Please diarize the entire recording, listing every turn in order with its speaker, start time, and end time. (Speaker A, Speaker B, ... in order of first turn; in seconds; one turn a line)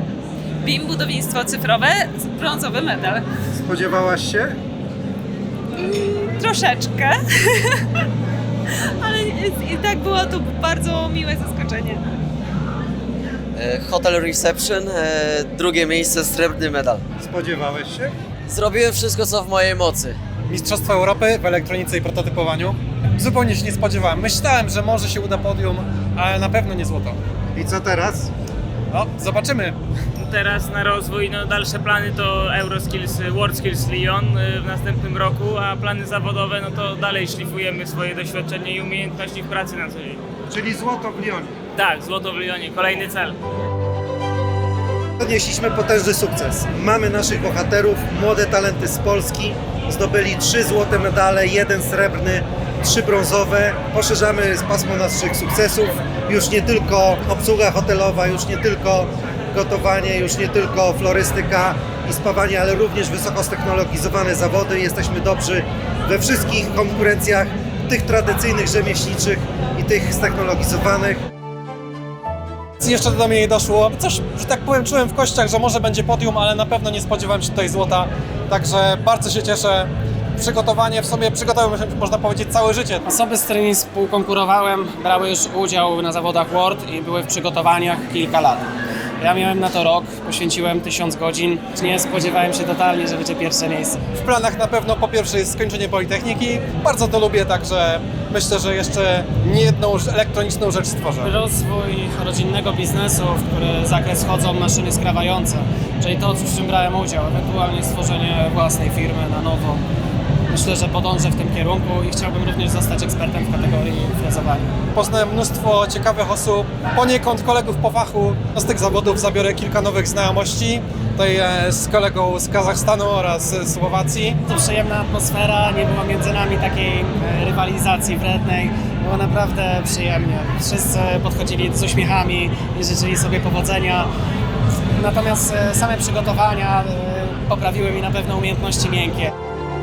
Speaker A: 0.6-3.3
Speaker B: 3.6-4.6
Speaker A: 5.8-7.9
Speaker A: 9.0-12.0
Speaker C: 13.6-17.0
Speaker B: 17.2-18.1
Speaker C: 18.5-20.2
Speaker D: 20.5-27.2
Speaker B: 27.6-28.3
Speaker D: 28.9-29.8
Speaker E: 30.2-40.3
Speaker B: 40.5-41.6
Speaker E: 41.8-43.4
Speaker B: 45.2-71.2
Speaker D: 72.8-83.0
Speaker F: 83.1-88.7
Speaker F: 89.2-94.0
Speaker D: 94.1-101.3
Speaker F: 101.2-109.8
Speaker F: 110.5-114.7
Speaker D: 114.9-124.4
Speaker F: 124.5-134.1
Speaker F: 134.9-139.3